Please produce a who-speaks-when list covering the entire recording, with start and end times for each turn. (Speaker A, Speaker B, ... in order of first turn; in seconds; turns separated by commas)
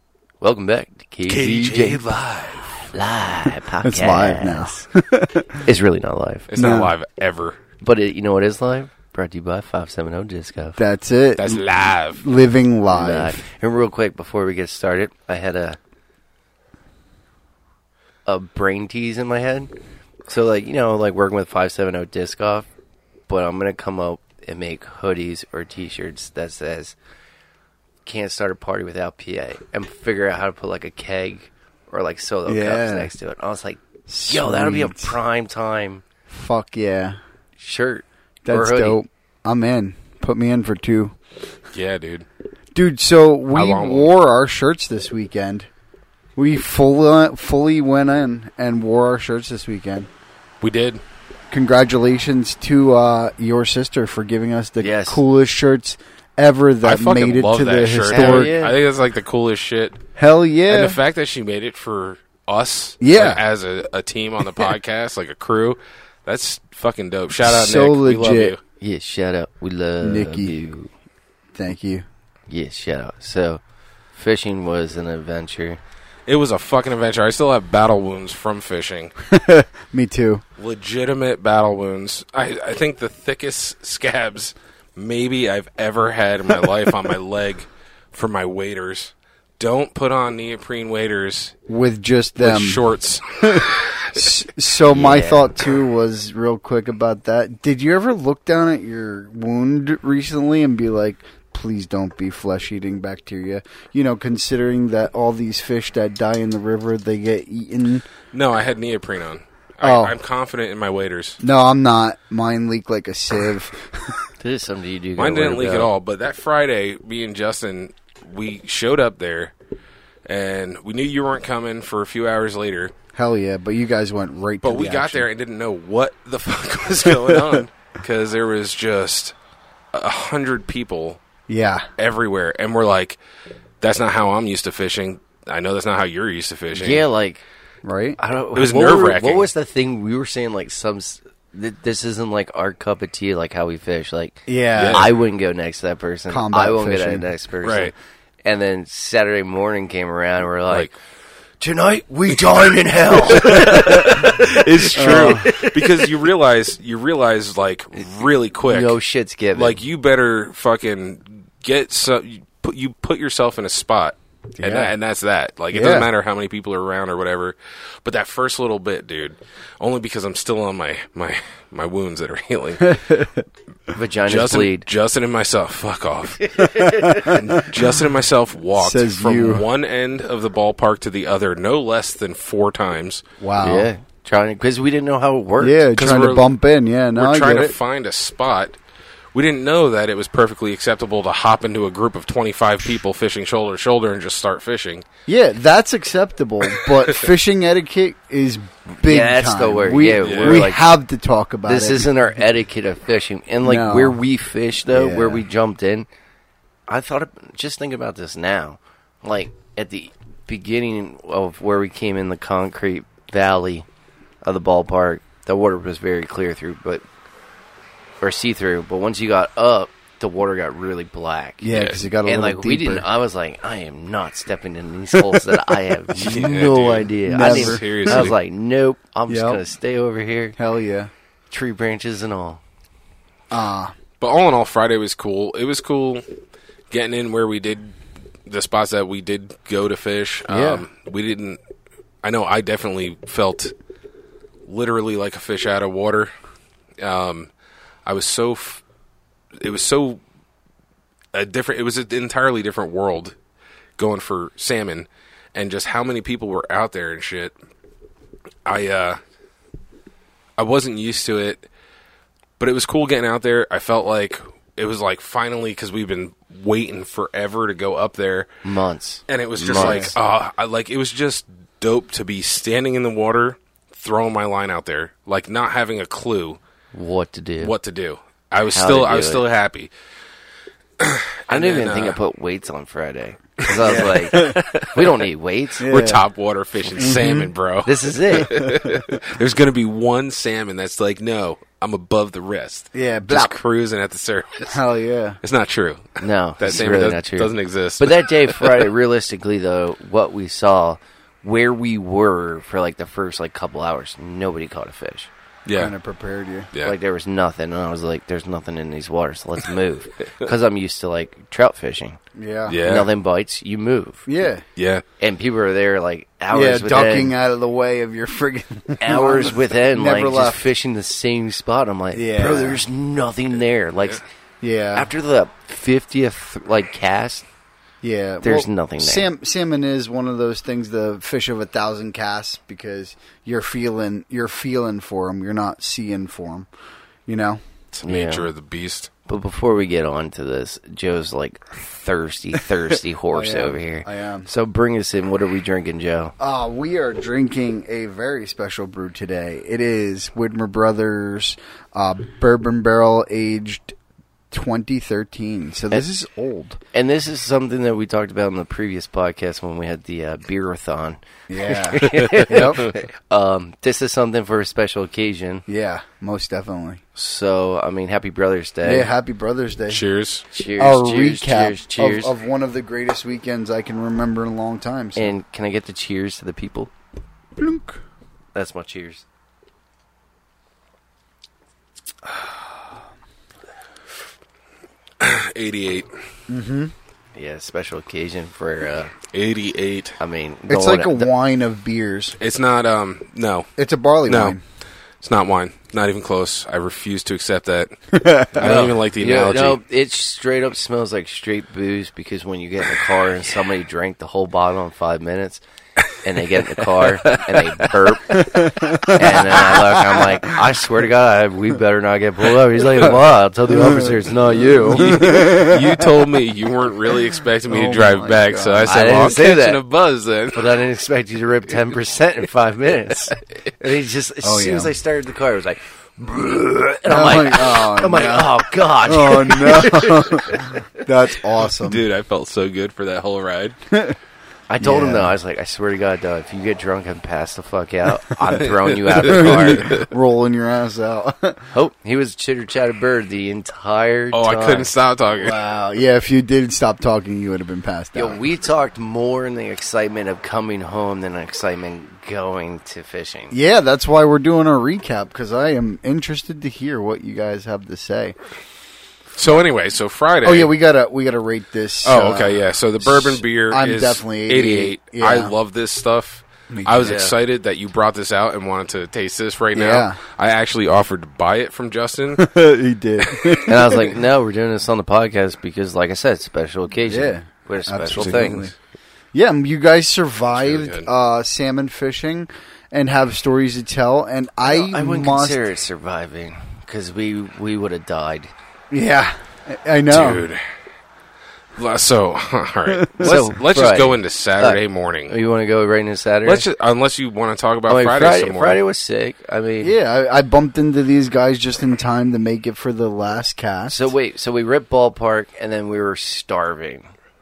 Speaker A: 0.4-2.0, Speaker B: 1.3-2.9, Speaker A: 2.9-4.8, Speaker C: 3.8-5.7, Speaker A: 5.7-6.5, Speaker B: 6.5-7.6, Speaker C: 6.5-6.9, Speaker A: 7.8-10.8, Speaker C: 10.8-11.7, Speaker B: 11.4-12.2, Speaker C: 12.2-13.4, Speaker A: 12.9-15.8, Speaker A: 18.3-19.7, Speaker A: 20.3-22.7, Speaker A: 23.3-27.0, Speaker A: 28.1-36.0, Speaker C: 32.5-33.1, Speaker C: 34.1-35.2, Speaker C: 36.3-37.2, Speaker A: 37.6-39.0, Speaker C: 38.5-41.1, Speaker B: 41.7-42.3, Speaker C: 42.7-45.7, Speaker B: 43.5-44.1, Speaker C: 46.4-50.1, Speaker B: 50.6-51.0, Speaker C: 51.5-58.6, Speaker A: 54.8-55.2, Speaker B: 56.8-60.0, Speaker A: 58.1-58.8, Speaker C: 60.2-61.0, Speaker B: 60.7-68.6, Speaker C: 63.0-63.4, Speaker C: 67.4-68.6, Speaker A: 68.8-70.9, Speaker C: 70.0-70.5, Speaker C: 71.5-72.0, Speaker A: 72.5-73.6, Speaker A: 74.1-75.8, Speaker B: 76.3-79.1, Speaker C: 79.2-80.4, Speaker B: 80.6-91.5, Speaker C: 91.7-92.8, Speaker B: 92.4-94.3, Speaker C: 93.4-108.1, Speaker A: 94.9-95.6, Speaker B: 108.3-111.4, Speaker C: 109.8-110.1, Speaker C: 111.4-114.3, Speaker A: 114.4-115.9, Speaker B: 115.2-119.5, Speaker B: 120.3-122.9, Speaker C: 123.1-125.3, Speaker B: 124.6-129.3, Speaker C: 127.0-127.6, Speaker B: 129.9-131.2, Speaker C: 131.5-131.9, Speaker B: 132.0-133.2, Speaker B: 133.8-137.1, Speaker A: 136.7-137.4, Speaker C: 137.8-138.2, Speaker A: 138.2-147.9, Speaker B: 138.6-139.5, Speaker C: 144.5-145.1, Speaker B: 144.8-145.1, Speaker C: 146.3-147.3, Speaker B: 147.6-147.9, Speaker A: 148.4-150.9, Speaker B: 150.7-150.9, Speaker A: 151.6-156.2, Speaker B: 153.2-159.0, Speaker C: 155.0-155.4, Speaker A: 158.7-159.8, Speaker B: 159.5-173.0, Speaker C: 164.6-164.9, Speaker C: 165.7-166.1, Speaker C: 172.8-173.4, Speaker A: 173.9-174.8, Speaker B: 174.3-183.2, Speaker A: 176.4-177.4, Speaker C: 177.0-177.7, Speaker C: 178.8-179.7, Speaker C: 183.4-183.9, Speaker A: 183.6-185.8, Speaker C: 185.6-187.8, Speaker B: 186.0-186.5, Speaker B: 187.2-188.8, Speaker B: 189.3-195.1, Speaker C: 195.3-202.1, Speaker B: 196.8-197.2, Speaker A: 199.0-200.8, Speaker B: 200.2-200.7, Speaker A: 201.7-206.1, Speaker C: 203.6-204.2, Speaker C: 204.9-205.4, Speaker A: 206.9-213.9, Speaker A: 214.4-217.0, Speaker A: 218.2-221.7, Speaker C: 221.6-223.1, Speaker B: 221.7-222.0, Speaker A: 222.2-230.6, Speaker C: 225.1-225.9, Speaker B: 226.2-228.3, Speaker C: 227.3-228.3, Speaker C: 229.3-229.6, Speaker C: 230.6-231.1, Speaker A: 231.5-232.6, Speaker C: 233.5-233.9, Speaker B: 234.2-236.2, Speaker B: 236.9-237.9, Speaker B: 238.5-241.6, Speaker C: 240.5-240.8, Speaker B: 242.2-243.7, Speaker B: 244.7-246.3, Speaker B: 247.0-247.5, Speaker B: 248.1-248.8, Speaker B: 249.6-250.2, Speaker B: 251.3-253.3, Speaker B: 254.0-257.5, Speaker B: 258.7-259.2, Speaker B: 260.6-261.7, Speaker B: 262.6-268.5, Speaker A: 268.6-270.1, Speaker B: 269.3-276.6, Speaker C: 269.7-270.1, Speaker A: 276.9-277.8, Speaker B: 277.6-279.9, Speaker A: 278.7-279.4, Speaker B: 281.0-282.2, Speaker A: 281.5-285.9, Speaker B: 283.6-285.2, Speaker C: 283.8-284.6, Speaker C: 285.8-286.2, Speaker B: 285.8-294.8, Speaker C: 287.0-287.5, Speaker A: 287.9-288.7, Speaker C: 288.6-289.0, Speaker C: 292.9-293.6, Speaker C: 294.7-295.4, Speaker B: 295.4-298.9, Speaker A: 296.2-305.3, Speaker B: 305.7-305.9, Speaker C: 305.7-306.7, Speaker A: 306.8-312.2, Speaker C: 312.4-312.8, Speaker B: 312.7-313.1, Speaker A: 312.8-314.3, Speaker C: 314.3-314.6, Speaker B: 314.8-315.0, Speaker A: 315.2-317.3, Speaker C: 316.5-320.6, Speaker A: 319.0-324.2, Speaker C: 322.1-322.8, Speaker C: 324.6-325.1, Speaker A: 324.9-327.5, Speaker C: 328.0-336.7, Speaker A: 328.4-329.3, Speaker C: 337.3-337.6, Speaker B: 337.9-339.1, Speaker A: 338.0-338.5, Speaker A: 339.3-346.3, Speaker C: 343.3-344.5, Speaker C: 346.4-353.9, Speaker C: 354.5-356.8, Speaker A: 356.9-365.6, Speaker C: 361.5-362.8, Speaker B: 362.1-362.9, Speaker C: 365.7-367.0, Speaker A: 367.1-369.1, Speaker C: 368.8-370.0, Speaker B: 369.9-370.5, Speaker A: 370.5-372.3, Speaker C: 370.8-375.3, Speaker A: 375.2-376.9, Speaker C: 377.6-378.0, Speaker A: 378.5-379.2, Speaker B: 385.2-386.1, Speaker C: 386.5-386.9, Speaker A: 387.4-389.1, Speaker B: 389.3-390.2, Speaker A: 390.2-391.3, Speaker C: 390.7-392.4, Speaker B: 392.4-393.7, Speaker C: 393.8-394.6, Speaker B: 394.3-394.6, Speaker B: 395.2-399.8, Speaker C: 398.1-398.8, Speaker A: 398.6-405.6, Speaker A: 406.1-415.5, Speaker C: 408.3-410.3, Speaker C: 413.7-416.2, Speaker B: 414.9-420.8, Speaker C: 417.7-419.1, Speaker A: 418.8-419.8, Speaker A: 420.5-430.7, Speaker C: 424.4-424.9, Speaker C: 427.1-432.1, Speaker B: 431.6-433.8, Speaker C: 433.9-434.2, Speaker A: 434.7-440.0, Speaker C: 434.8-435.4, Speaker B: 438.6-440.1, Speaker C: 439.3-441.7, Speaker A: 441.7-444.9, Speaker B: 444.3-445.6, Speaker C: 445.4-448.4, Speaker A: 448.1-453.6, Speaker C: 453.5-458.4, Speaker B: 459.4-460.7, Speaker C: 460.4-465.5, Speaker B: 462.0-472.5, Speaker C: 466.7-467.2, Speaker A: 467.0-467.4, Speaker C: 469.8-470.2, Speaker C: 472.4-474.1, Speaker B: 473.2-473.7, Speaker A: 473.7-478.7, Speaker C: 477.1-478.7, Speaker B: 478.1-478.6, Speaker C: 479.3-485.6, Speaker B: 480.6-481.1, Speaker A: 484.6-488.5, Speaker C: 488.9-490.4, Speaker B: 490.1-490.6, Speaker B: 491.8-495.4, Speaker C: 493.0-493.4, Speaker A: 493.2-496.6, Speaker B: 496.4-498.8, Speaker A: 497.9-500.0, Speaker C: 499.8-504.1, Speaker A: 503.9-507.1